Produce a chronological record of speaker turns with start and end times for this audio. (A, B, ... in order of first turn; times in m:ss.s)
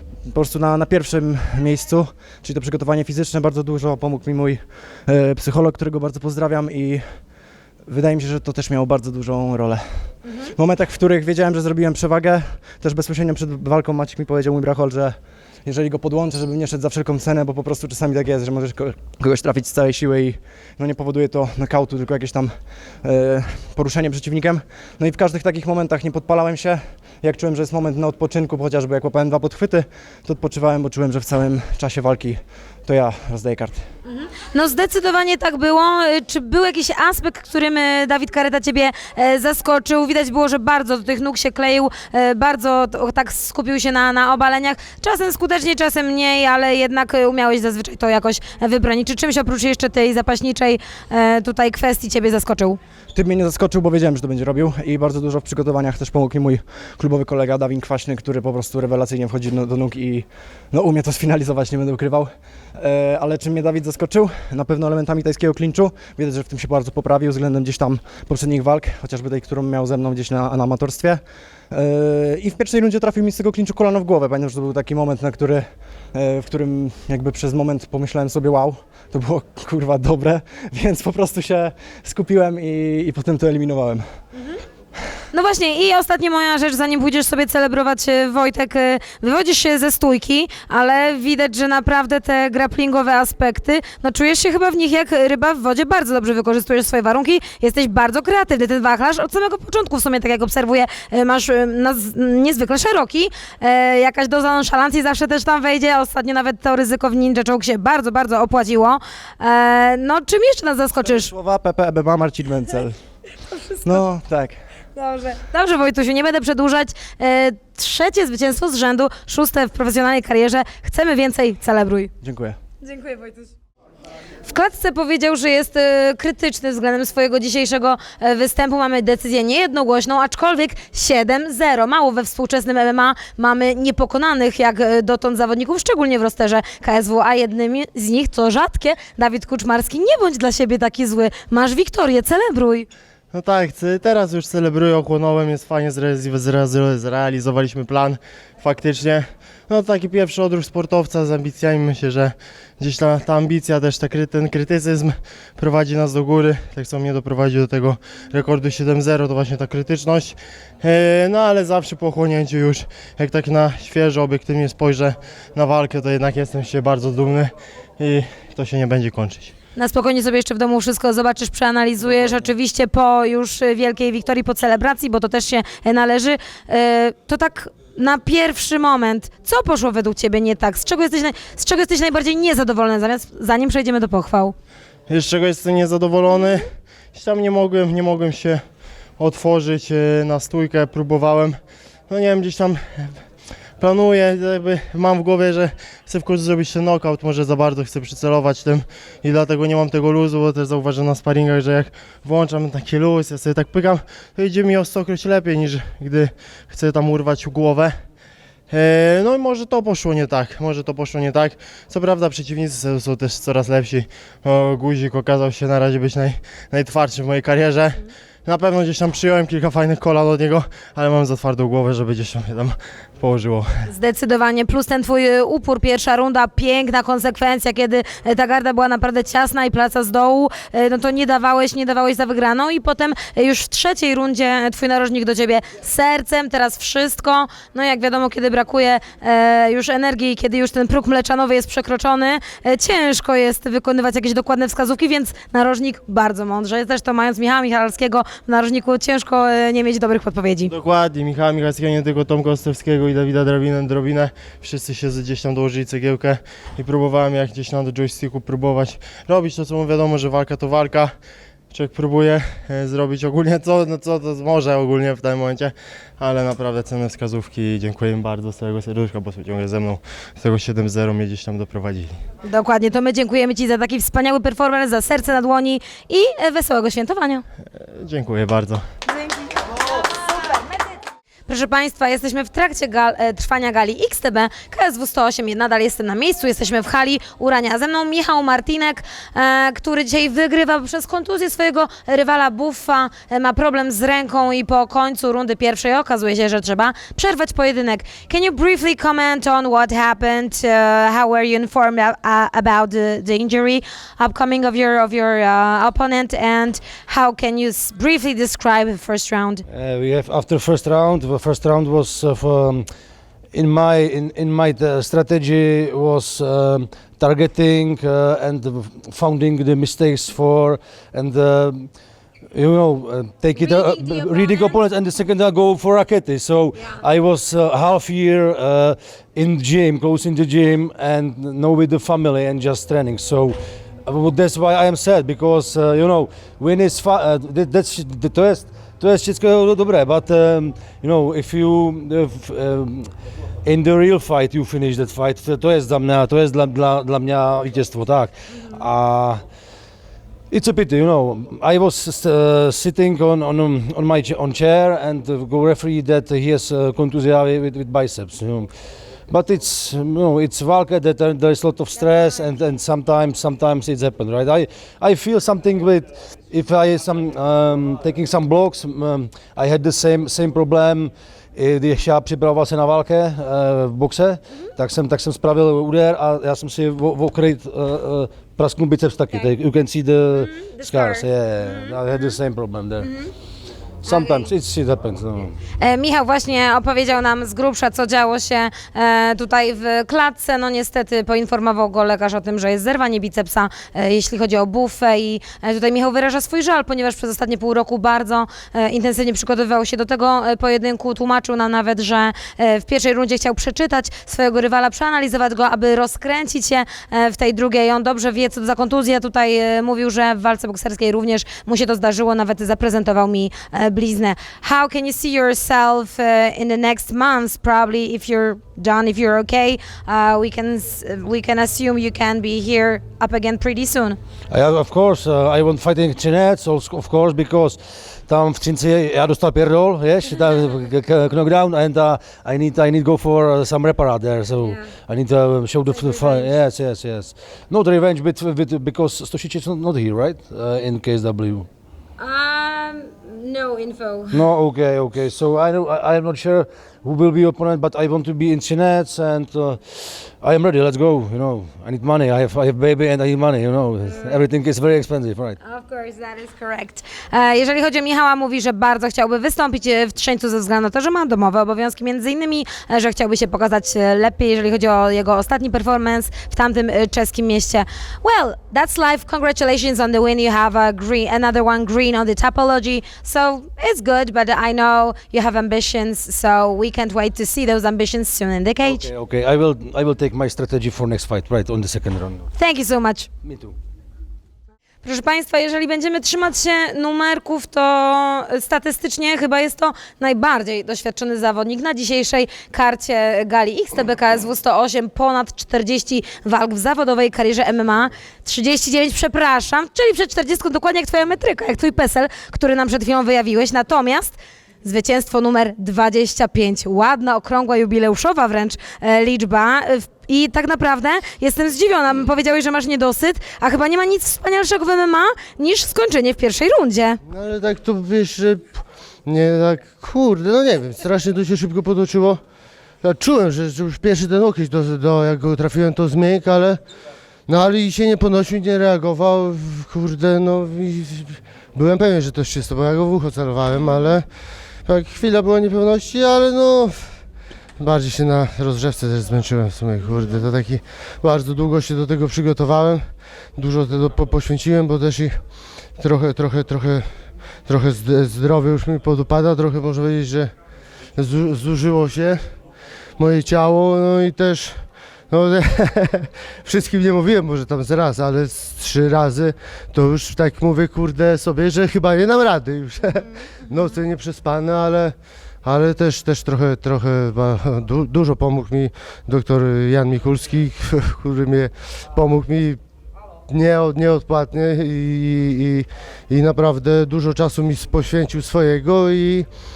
0:00.3-0:07.2 A
0:07.9-0:33.8 A
0:34.1-0:52.8 B
0:53.1-1:24.1 A
1:25.3-1:51.3 B
1:51.1-1:53.0 A
1:53.5-1:53.9 B
1:53.8-1:54.6 A
1:55.0-2:02.1 B
2:02.2-2:02.6 A
2:02.8-2:03.5 B
2:04.5-2:22.9 B
2:23.3-2:49.5 C
2:49.8-3:04.6 B
3:05.1-3:08.6 C
3:09.2-3:11.6 C
3:12.1-3:13.1 C
3:13.8-3:28.0 C
3:28.7-3:43.7 C
3:43.9-4:10.7 B
4:10.7-4:21.1 C
4:21.7-4:32.2 C
4:32.4-4:37.4 B
4:37.9-4:38.8 C
4:39.1-4:40.9 B
4:41.5-5:09.6 B
5:09.7-5:12.9 D
5:13.5-5:21.9 D
5:22.5-5:49.4 D
5:23.6-5:24.8 B
5:26.8-5:27.0 B
5:50.5-5:58.7 D
5:59.3-6:23.1 D
6:20.3-6:22.3 B
6:23.0-6:23.3 B
6:24.0-6:24.5 B
6:24.0-6:25.6 D
6:25.8-7:04.2 B
7:04.5-7:21.7 D
7:14.6-7:14.9 B
7:15.9-7:16.6 B
7:22.2-7:24.4 B
7:24.3-7:35.6 D
7:34.1-7:34.4 B
7:35.6-7:59.1 B
7:58.8-8:02.5 D
8:02.6-8:03.3 B
8:03.4-8:03.8 D
8:05.0-8:37.2 B
8:37.2-8:42.4 E
8:43.0-8:46.8 E
8:47.5-8:54.3 E
8:54.9-8:57.1 E
8:57.8-9:05.4 E
9:06.0-9:07.1 E
9:07.7-9:10.5 E
9:11.2-9:12.4 E
9:13.2-9:32.8 E
9:33.5-9:39.5 E